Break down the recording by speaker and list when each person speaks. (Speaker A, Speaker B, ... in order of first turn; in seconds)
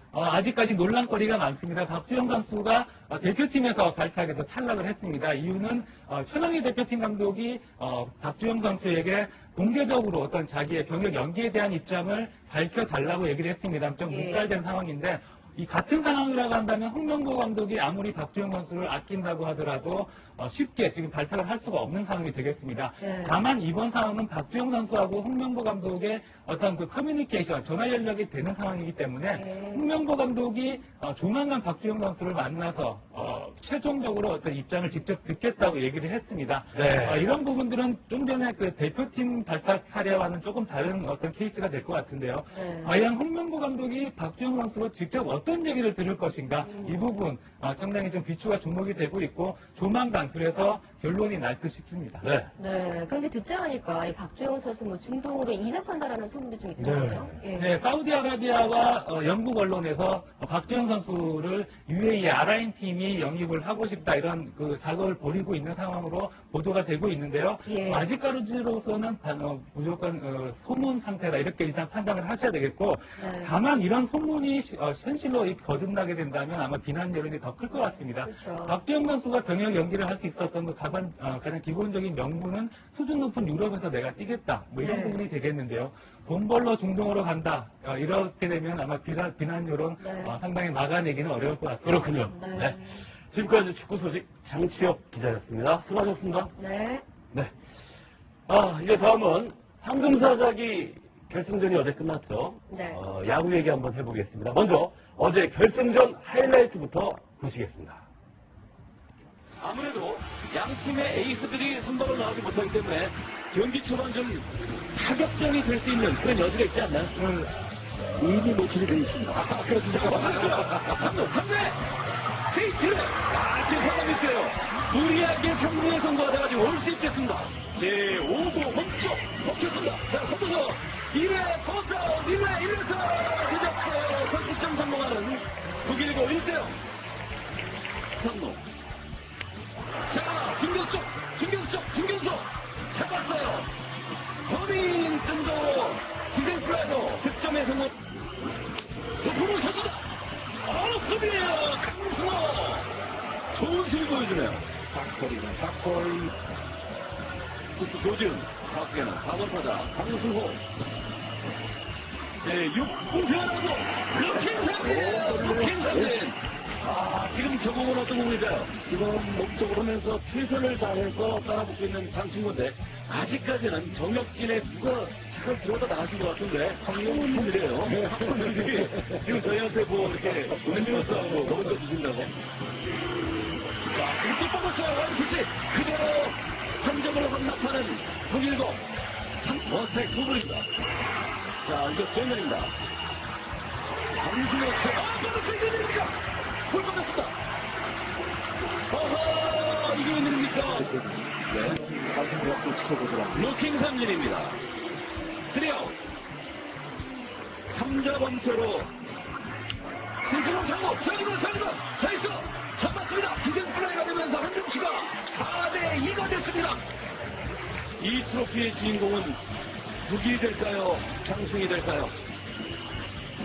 Speaker A: 0.1-52.2, 57.5-92.1
Speaker B: 14.0-14.4, 23.0-23.4, 29.3-29.8, 42.5-42.9, 46.6-47.0, 52.6-57.7, 67.6-68.1, 73.2-73.5, 78.1-78.8, 84.8-85.2, 90.0-90.3, 92.3-93.0, 96.6-97.0, 102.7-103.0
Speaker C: 36.7-37.2, 52.2-52.5, 56.8-57.4, 91.8-96.5, 98.5-108.0, 109.6-117.2, 119.5-121.8, 122.5-136.8, 138.2-138.6, 140.1-143.7, 144.5-147.9, 149.2-150.0, 150.6-152.9, 153.5-154.7, 157.8-160.6, 162.4-182.3, 183.9-188.8, 189.4-190.6, 191.6-192.7, 194.2-196.1, 196.7-197.3, 198.9-201.8, 203.3-204.6, 205.5-205.9, 207.7-208.9, 210.2-216.8, 218.0-219.4, 220.0-222.1
Speaker D: 118.2-120.9, 154.9-156.3, 164.4-166.1, 177.0-178.2, 200.8-201.1, 201.7-203.4